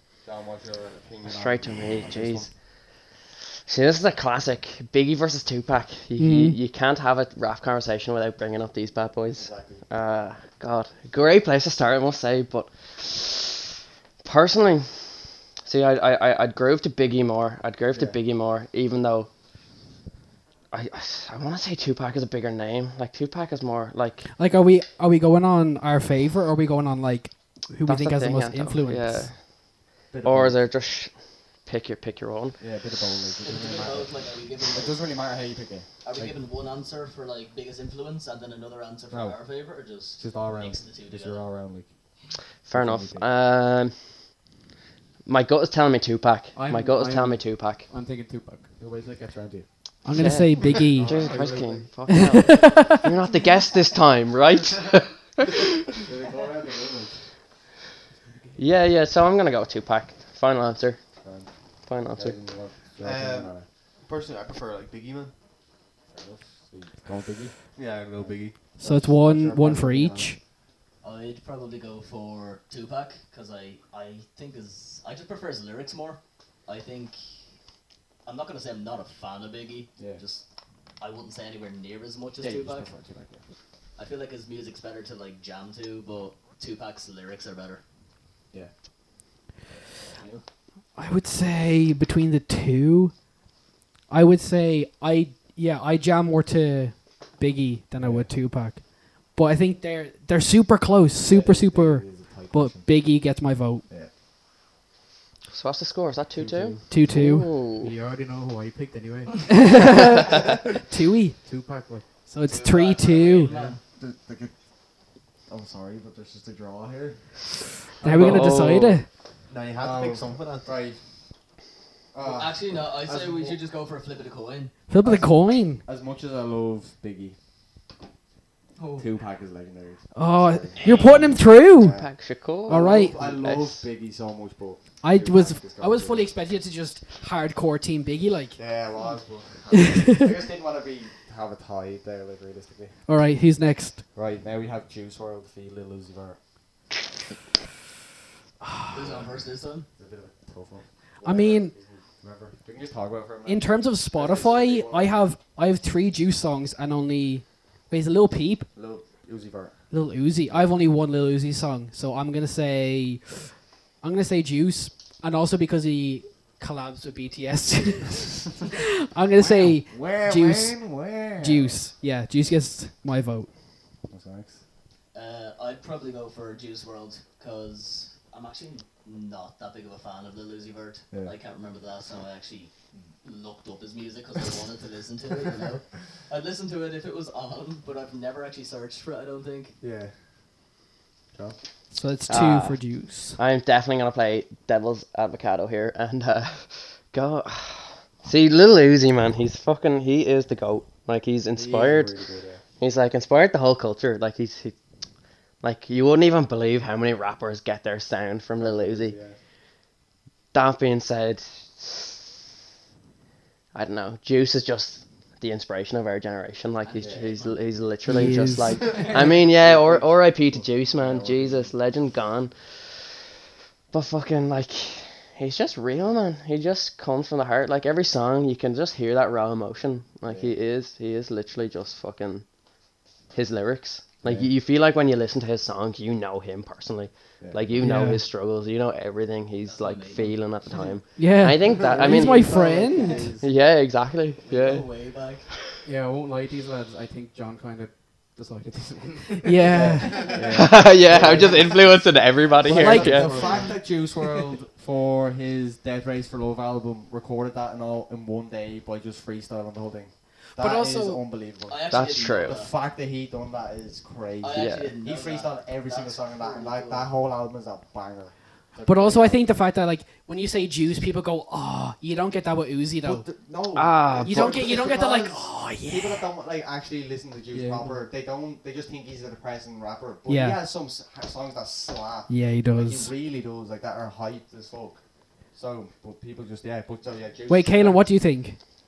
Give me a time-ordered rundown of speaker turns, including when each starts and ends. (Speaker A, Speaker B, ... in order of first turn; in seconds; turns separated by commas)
Speaker A: 0.2-2.5, Speaker B: 1.2-2.5, Speaker B: 3.6-13.7, Speaker C: 6.2-6.6, Speaker A: 9.3-9.8, Speaker B: 14.2-15.1, Speaker B: 15.6-19.3, Speaker A: 17.9-18.2, Speaker B: 20.7-24.3, Speaker C: 24.4-29.3, Speaker B: 27.8-29.7, Speaker A: 30.1-30.6, Speaker B: 30.2-32.6, Speaker A: 32.6-36.4, Speaker D: 33.4-35.0, Speaker D: 36.0-41.4, Speaker A: 39.1-39.4, Speaker A: 40.1-41.9, Speaker B: 42.6-44.0, Speaker A: 42.7-43.3, Speaker B: 45.2-47.9, Speaker E: 46.5-48.7, Speaker A: 48.8-49.7, Speaker C: 50.0-51.2, Speaker B: 50.1-55.6, Speaker A: 50.9-52.8, Speaker C: 52.1-53.0, Speaker A: 56.0-57.3, Speaker E: 58.2-58.6, Speaker B: 58.6-61.2, Speaker A: 61.2-63.6, Speaker B: 61.8-62.4, Speaker F: 63.0-65.3, Speaker A: 66.0-70.3, Speaker F: 67.7-68.7, Speaker C: 68.8-70.4, Speaker D: 71.0-77.2, Speaker D: 78.2-80.4, Speaker A: 80.0-80.2, Speaker D: 81.0-82.9, Speaker A: 82.4-83.4, Speaker D: 84.0-87.8, Speaker A: 89.7-90.4, Speaker C: 91.0-93.2, Speaker C: 94.1-103.8, Speaker A: 98.0-98.3, Speaker A: 101.2-102.9, Speaker B: 105.5-107.9, Speaker A: 106.3-106.9, Speaker C: 106.9-107.6, Speaker E: 107.7-109.4, Speaker C: 109.5-111.4, Speaker E: 111.4-112.2, Speaker C: 112.2-113.5, Speaker D: 112.4-113.8, Speaker A: 113.5-114.6, Speaker A: 115.5-117.4, Speaker A: 118.0-118.7, Speaker C: 118.0-119.0, Speaker B: 118.1-119.0, Speaker F: 119.5-120.7, Speaker A: 119.8-121.0, Speaker A: 122.1-123.6, Speaker D: 122.2-124.7, Speaker C: 124.9-125.8, Speaker A: 125.0-127.3, Speaker D: 128.8-129.1, Speaker A: 129.0-136.3, Speaker C: 130.1-132.0, Speaker D: 130.8-131.3, Speaker B: 131.8-133.8, Speaker C: 132.7-133.2, Speaker C: 135.0-138.6, Speaker A: 138.6-143.0, Speaker C: 139.7-140.3, Speaker C: 143.1-144.0, Speaker A: 144.1-146.4, Speaker D: 148.9-149.9, Speaker A: 149.0-149.3, Speaker A: 149.9-155.2, Speaker C: 151.2-151.7, Speaker C: 153.4-158.7, Speaker A: 158.7-159.9, Speaker C: 159.9-173.5, Speaker A: 160.5-160.8, Speaker E: 169.4-169.7, Speaker A: 169.8-171.8, Speaker A: 174.1-174.6, Speaker D: 175.1-189.7, Speaker A: 189.8-190.1, Speaker C: 191.9-193.4, Speaker B: 192.3-202.2, Speaker A: 201.5-202.6, Speaker B: 202.8-204.8, Speaker B: 205.6-209.2, Speaker A: 208.6-209.4, Speaker B: 210.5-212.2, Speaker B: 213.7-223.1, Speaker D: 216.8-217.6, Speaker A: 217.0-217.3, Speaker C: 218.1-219.2, Speaker D: 218.9-219.3, Speaker A: 219.0-221.7, Speaker B: 223.9-232.5, Speaker A: 230.2-230.5, Speaker B: 233.3-242.6, Speaker A: 234.2-234.5, Speaker A: 237.4-237.8, Speaker C: 237.8-238.2, Speaker D: 239.6-240.5, Speaker A: 240.7-241.0, Speaker C: 241.2-243.3, Speaker A: 241.7-243.5, Speaker B: 243.4-244.9, Speaker D: 244.4-245.5, Speaker E: 245.8-251.6, Speaker C: 249.4-250.4, Speaker A: 249.7-251.8, Speaker D: 250.0-252.6, Speaker B: 250.5-253.3, Speaker A: 252.6-269.5, Speaker C: 252.8-253.5, Speaker E: 253.0-253.7, Speaker D: 253.1-254.3, Speaker C: 260.6-261.2, Speaker D: 261.7-262.7, Speaker B: 261.9-262.6, Speaker D: 264.4-267.1, Speaker B: 264.5-264.9, Speaker C: 268.8-273.4, Speaker A: 273.0-285.0, Speaker B: 273.7-274.5, Speaker C: 274.2-276.2, Speaker E: 277.5-278.0, Speaker C: 280.3-280.6, Speaker C: 282.3-283.1, Speaker A: 285.5-288.1, Speaker C: 287.5-288.6